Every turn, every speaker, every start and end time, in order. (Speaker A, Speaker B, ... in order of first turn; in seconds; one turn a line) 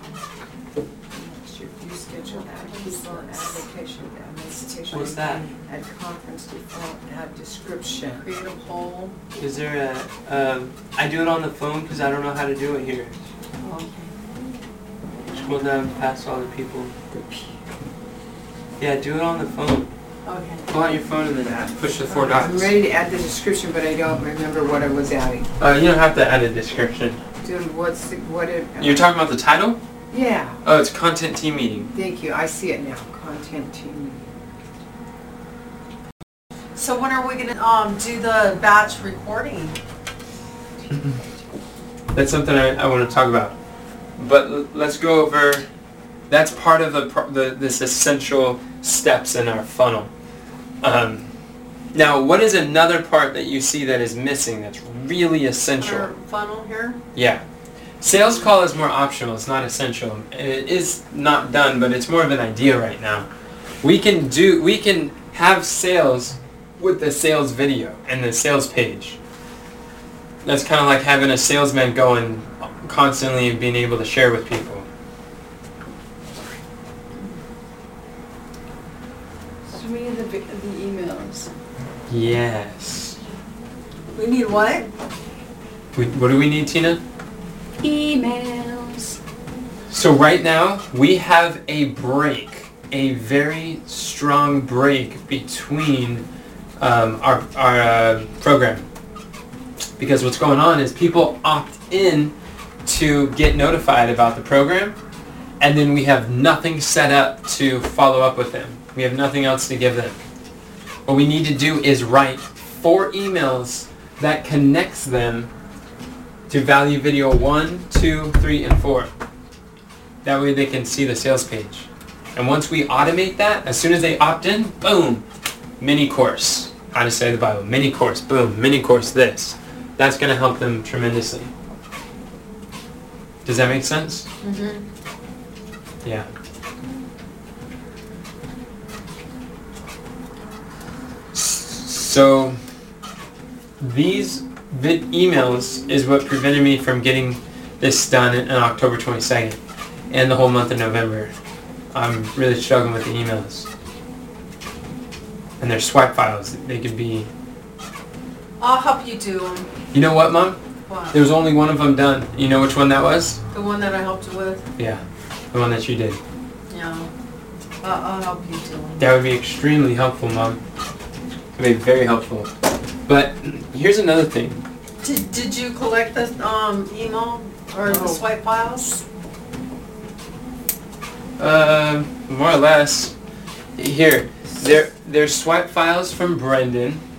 Speaker A: 1.1-8.2
Speaker B: 2.3-3.7
Speaker B: 4.6-5.1
Speaker C: 4.9-5.5
Speaker B: 8.2-9.1
Speaker C: 9.3-13.1
Speaker B: 13.6-14.1
Speaker C: 15.3-17.0
Speaker A: 17.1-17.4
Speaker C: 18.8-19.9
Speaker B: 20.3-20.6
Speaker C: 20.7-22.7
Speaker A: 22.2-25.5
Speaker C: 25.6-27.2
Speaker A: 27.4-29.1
Speaker C: 28.8-29.8
Speaker A: 30.1-30.6
Speaker C: 30.6-31.9
Speaker A: 31.9-34.3
Speaker B: 36.8-39.8
Speaker C: 42.1-43.5
Speaker C: 44.2-45.7
Speaker C: 46.3-50.1
Speaker C: 50.8-51.3
Speaker C: 51.9-56.1
Speaker B: 55.8-57.0
Speaker C: 57.1-57.4
Speaker C: 58.0-63.3
Speaker C: 63.8-69.2
Speaker C: 70.4-74.9
Speaker D: 79.7-81.5
Speaker C: 82.1-83.2
Speaker B: 84.2-84.9
Speaker C: 86.0-87.0
Speaker D: 87.8-89.2
Speaker C: 89.9-96.3
Speaker C: 96.8-98.9
Speaker C: 100.0-105.0
Speaker C: 105.6-110.2
Speaker C: 111.1-115.5
Speaker C: 116.5-119.1
Speaker C: 120.2-125.2
Speaker C: 125.8-131.5
Speaker C: 133.4-134.3
Speaker B: 134.4-134.8
Speaker C: 136.0-136.3
Speaker C: 141.3-142.6
Speaker C: 143.8-149.6
Speaker C: 150.1-151.3
Speaker C: 151.9-153.7
Speaker C: 155.6-157.3
Speaker B: 158.6-159.7
Speaker C: 159.9-160.6
Speaker B: 160.9-161.2
Speaker C: 161.1-163.4
Speaker B: 163.5-164.7
Speaker C: 164.8-166.2
Speaker B: 166.7-167.1
Speaker B: 167.8-169.1
Speaker C: 169.0-170.6
Speaker C: 171.6-172.5
Speaker C: 173.1-174.6
Speaker B: 175.0-179.0
Speaker A: 177.9-178.2
Speaker C: 181.4-183.1
Speaker C: 183.8-187.0